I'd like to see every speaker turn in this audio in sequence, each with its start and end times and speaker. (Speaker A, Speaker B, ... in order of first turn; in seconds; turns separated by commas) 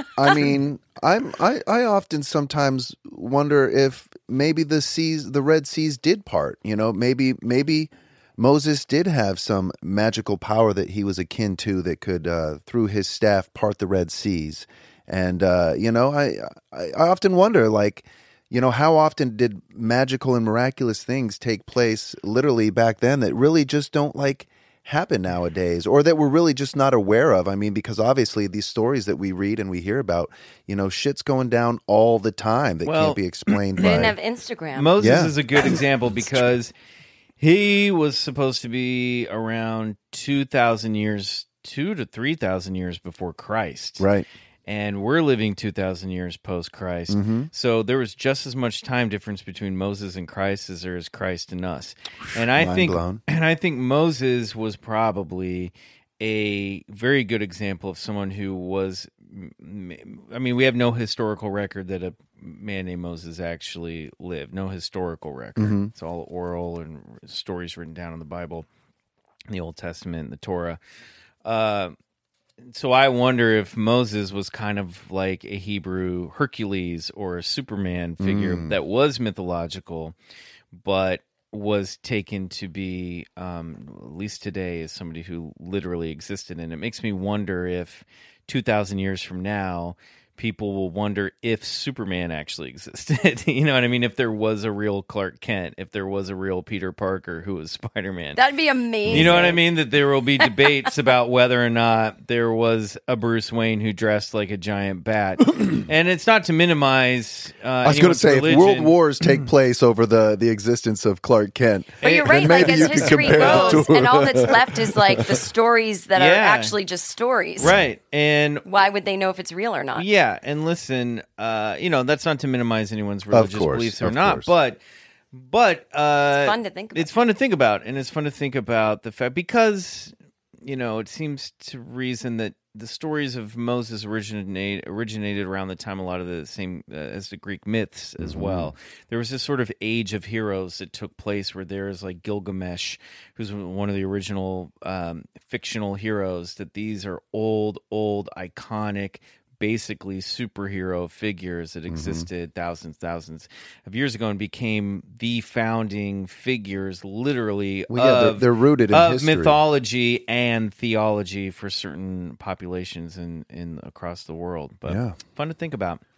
Speaker A: 0.2-34.2, Speaker B: 32.9-34.1, Speaker C: 33.8-35.0, Speaker B: 34.8-36.7, Speaker A: 35.0-36.5, Speaker B: 37.4-44.1, Speaker A: 44.0-44.3, Speaker B: 44.7-68.7, Speaker A: 47.1-47.5, Speaker A: 52.5-53.2, Speaker A: 65.6-65.9, Speaker B: 69.5-70.8, Speaker B: 71.5-72.0, Speaker B: 72.7-80.2, Speaker A: 78.2-78.8, Speaker B: 80.7-98.4, Speaker C: 98.4-99.7, Speaker B: 99.1-109.0, Speaker A: 99.1-99.5, Speaker A: 107.8-114.8, Speaker C: 112.0-117.8, Speaker B: 112.0-113.9, Speaker B: 116.2-116.8, Speaker B: 117.6-118.7, Speaker C: 118.7-120.1, Speaker B: 120.0-124.8, Speaker A: 123.3-124.5, Speaker B: 125.3-166.0, Speaker C: 126.3-127.1, Speaker A: 138.2-138.7, Speaker A: 151.9-152.3, Speaker A: 157.9-159.6, Speaker A: 164.8-165.2